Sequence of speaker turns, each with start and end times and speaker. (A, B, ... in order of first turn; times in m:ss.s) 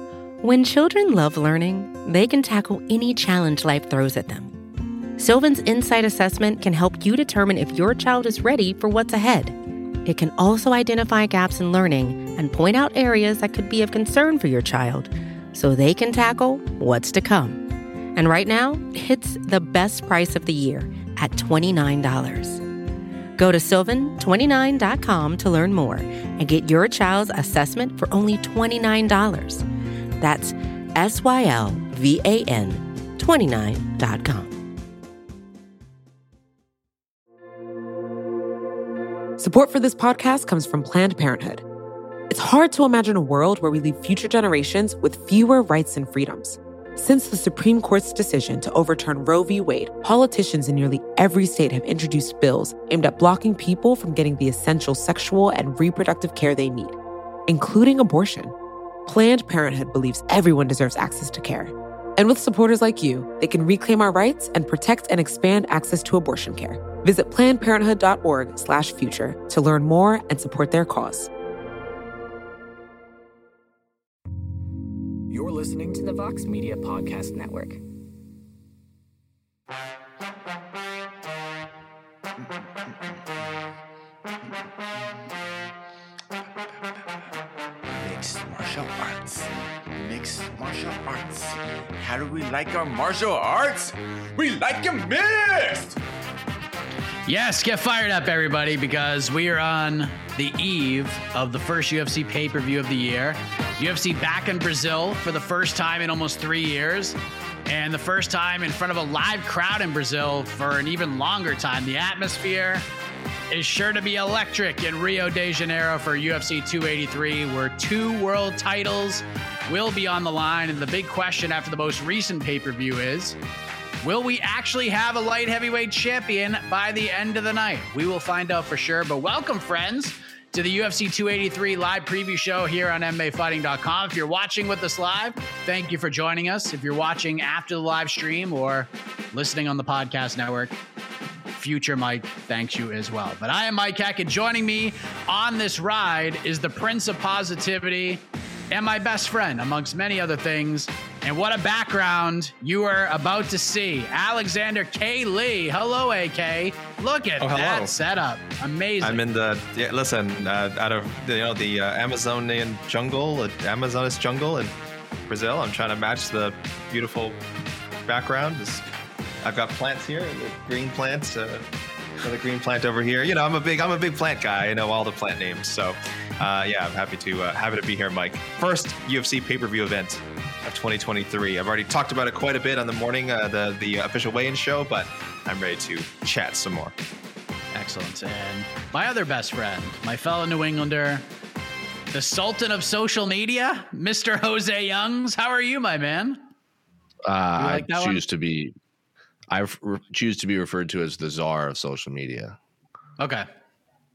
0:00.4-0:04.6 A
0:05.2-0:22.6 A
0:23.4-0:29.6 A
0:30.2-0:34.6 A
0:39.4-0:41.6 B
0:42.3-0:58.5 B
0:59.0-1:11.3 B
1:15.3-1:17.8 C
1:26.6-1:27.0 D
1:27.9-1:36.0 D
1:37.3-1:52.9 E
1:53.5-2:03.4 E
2:04.0-2:20.8 E
2:21.5-2:39.2 E
2:37.4-2:37.9 F
2:39.0-2:44.7 F
2:45.3-2:47.4 F
2:48.0-2:48.8 F
2:49.4-2:51.7 F
2:52.2-3:06.9 F
3:07.7-3:11.2 E
3:12.1-3:16.4 E
3:17.2-3:18.8 G
3:17.6-3:18.2 E
3:19.5-3:22.6 G
3:23.2-3:23.4 E